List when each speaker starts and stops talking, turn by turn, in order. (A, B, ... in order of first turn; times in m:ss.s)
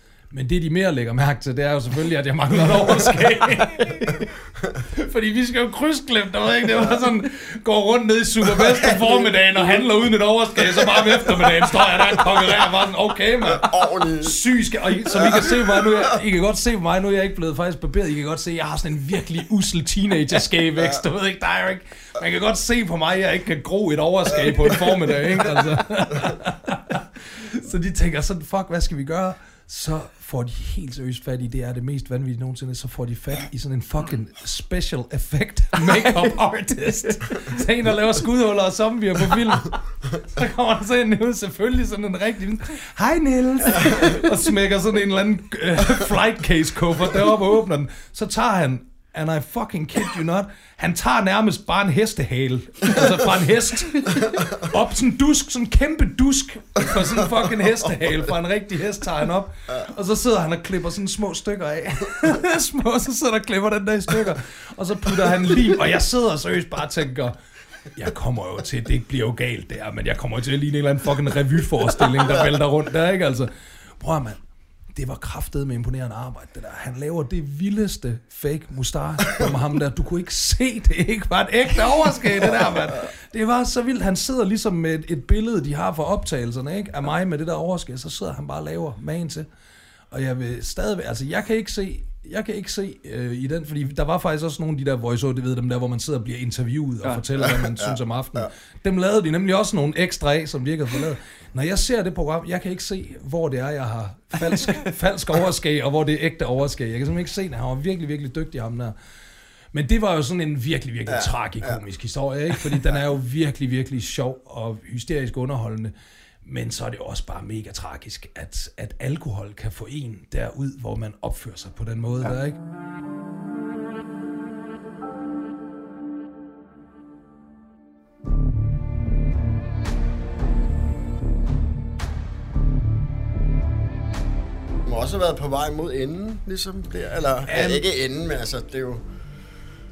0:00.3-1:07.4 A
0:08.6-0:09.2 B
0:13.4-0:14.4 B
0:15.4-0:16.0 B
1:07.9-1:14.4 A
1:14.9-1:29.5 A
1:30.1-1:49.0 A
1:37.4-1:38.0 B
1:49.7-1:55.9 A
1:51.1-1:51.8 B
1:56.4-2:02.6 A
2:14.8-2:19.1 B
2:17.5-2:17.9 A